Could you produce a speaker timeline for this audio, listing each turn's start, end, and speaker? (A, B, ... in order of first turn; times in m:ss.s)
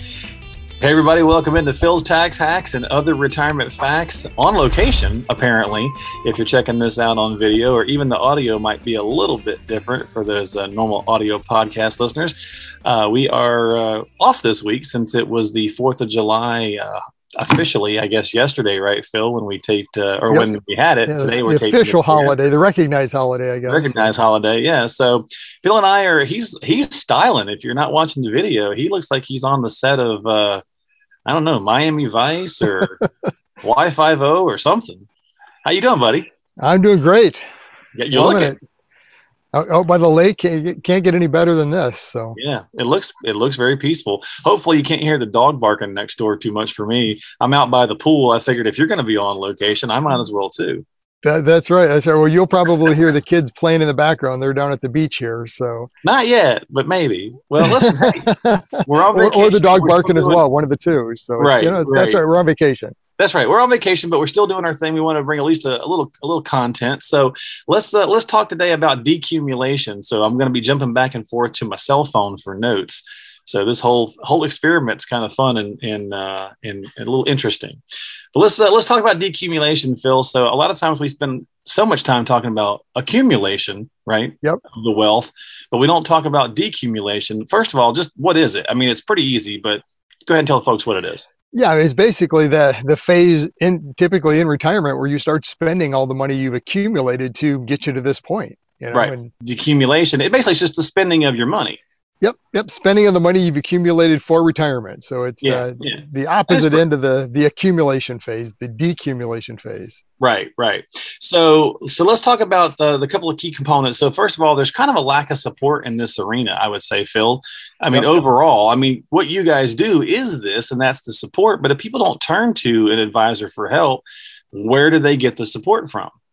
0:00.8-0:22.4 A
0:21.1-0:24.1 B
0:23.7-0:30.6 A
0:31.3-0:33.0 A
0:33.6-0:35.1 A
0:35.6-0:36.3 A
0:36.6-0:37.4 B
0:38.0-0:38.6 A
0:38.1-0:38.6 B
0:39.5-0:42.4 B
0:42.4-0:50.8 A
0:51.2-0:55.9 B
0:56.0-0:58.3 A
0:57.6-1:03.0 B
0:58.8-1:00.4 A
1:01.4-1:02.2 A
1:03.2-1:17.8 A
1:18.4-1:31.3 A
1:31.5-1:39.3 B
1:38.9-1:41.8 A
1:42.2-1:50.0 B
1:45.4-1:46.8 A
1:50.2-2:06.1 A
1:57.9-1:58.3 B